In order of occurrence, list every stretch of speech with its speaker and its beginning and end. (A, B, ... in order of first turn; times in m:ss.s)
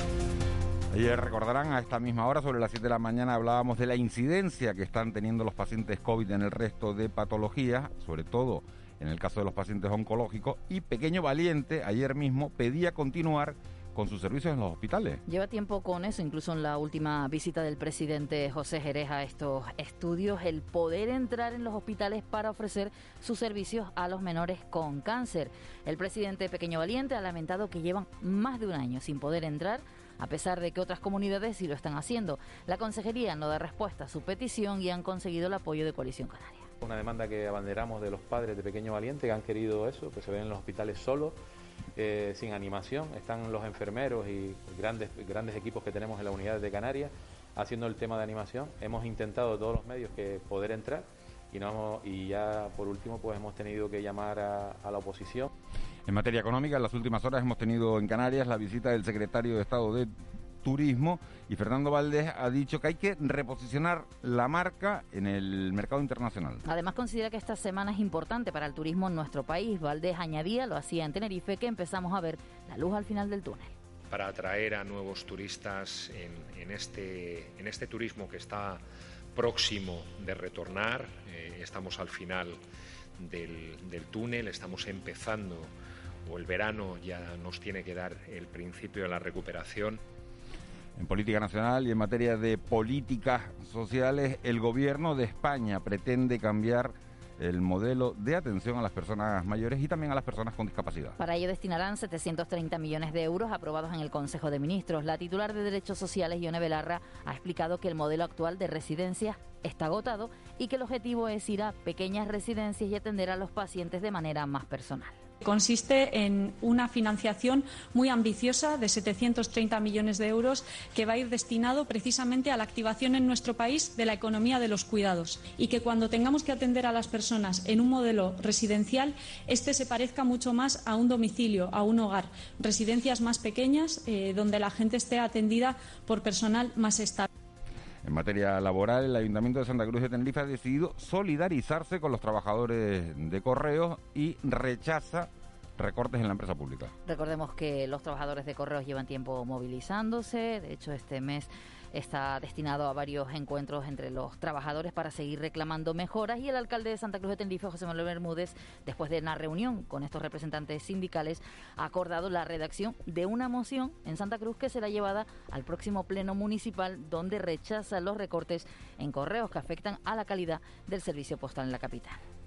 0:00.9-0:15.2 A
0:15.3-0:36.7 B
0:36.8-0:41.4 C
0:41.9-0:55.5 C
0:56.1-1:00.1 A
1:00.6-1:06.6 A
1:06.6-1:13.7 B
1:14.1-1:18.8 D
1:19.3-1:22.6 D
1:23.2-1:25.7 D
1:26.2-1:30.0 D
1:31.0-1:41.2 A
1:41.2-1:55.2 B
1:55.4-2:17.3 E
2:18.0-2:26.9 A
2:27.0-2:52.2 B